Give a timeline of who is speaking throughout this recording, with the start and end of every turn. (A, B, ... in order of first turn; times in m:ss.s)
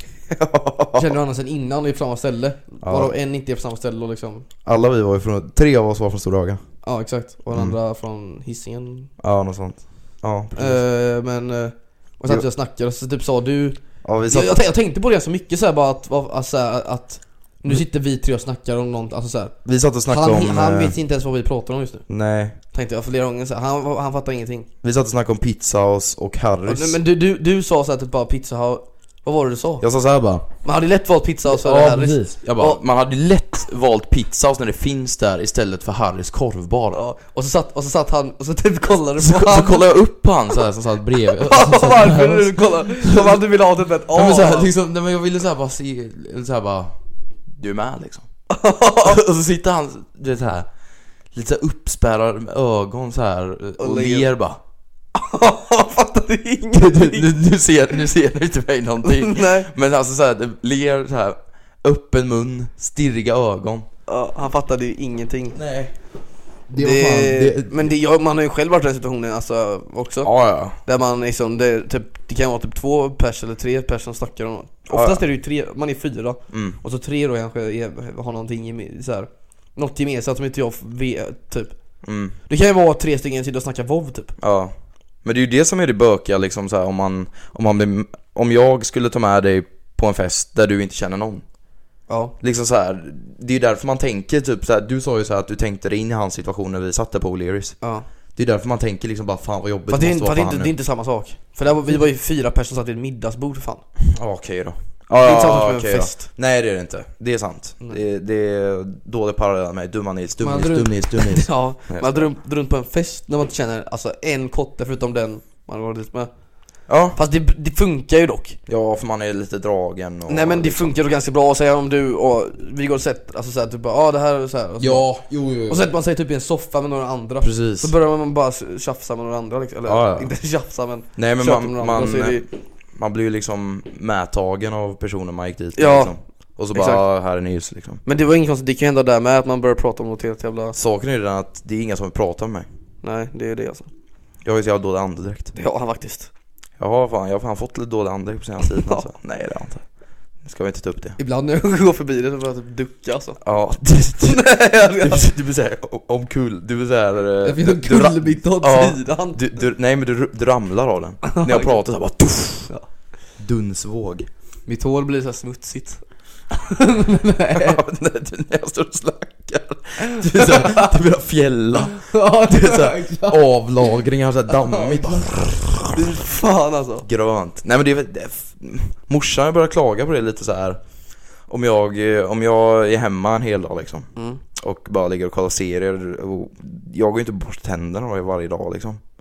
0:00.3-0:01.1 A
0:00.9-0:04.4 B
0:02.8-0:03.1 A
0:04.6-0:06.6 A
0:06.8-0:09.1 B
0:07.5-0:07.8 A
0:09.2-0:10.8 A
0:10.6-0:19.5 B
0:14.0-0:14.6 A
0:19.6-0:20.9 A
0:20.1-0:22.0 B
0:22.1-0:22.6 A
0:22.7-0:24.7 B
0:24.8-0:27.0 A
0:26.6-0:29.8 B
0:29.8-0:30.5 A
0:30.6-0:32.8 B
0:31.5-0:37.0 A
0:36.9-0:39.8 B
0:39.2-0:43.4 A
0:41.3-0:44.7 B
0:44.1-0:47.0 A
0:47.5-0:48.2 A
0:48.5-0:49.2 B
0:49.0-0:50.7 A
0:51.3-0:54.6 A
0:53.8-0:54.3 B
0:55.1-0:57.3 B
0:56.7-1:03.9 A
0:59.0-0:59.7 B
1:04.1-1:05.6 B
1:05.5-1:05.9 A
1:06.7-1:07.9 A
1:06.8-1:10.3 B
1:10.2-1:10.8 A
1:10.8-1:21.8 B
1:14.9-1:15.2 A
1:16.5-1:16.8 A
1:22.0-1:22.3 A
1:22.5-1:24.3 B
1:24.4-1:24.7 A
1:25.2-1:31.4 A
1:32.1-1:32.3 B
1:32.4-1:37.8 A
1:38.4-1:40.7 A
1:39.9-1:43.8 B
1:44.0-1:52.3 A
1:45.2-1:46.3 B
1:50.4-1:56.3 B
1:56.9-1:57.2 A
1:57.1-1:58.6 B
1:58.7-2:00.9 A
2:00.3-2:05.1 B
2:04.8-2:05.8 A
2:05.7-2:12.4 B
2:07.4-2:07.9 A
2:09.8-2:10.3 A
2:11.2-2:18.0 A
2:15.8-2:16.1 B
2:16.7-2:17.0 B
2:18.0-2:20.8 B
2:20.7-2:22.7 A
2:23.0-2:23.9 B
2:24.4-2:25.5 A
2:25.5-2:26.3 B
2:26.8-2:29.8 A
2:30.4-2:31.2 A
2:31.2-2:33.4 B
2:33.4-2:42.7 A
2:34.2-2:35.2 B
2:37.4-2:39.4 B
2:41.2-2:41.8 B
2:43.4-2:44.3 A
2:44.7-2:47.8 B
2:47.5-2:56.2 A
2:50.1-2:50.9 B
2:51.9-2:53.5 B
2:54.5-2:57.0 B
2:57.0-3:00.8 A
3:01.5-3:09.0 A
3:04.2-3:04.4 B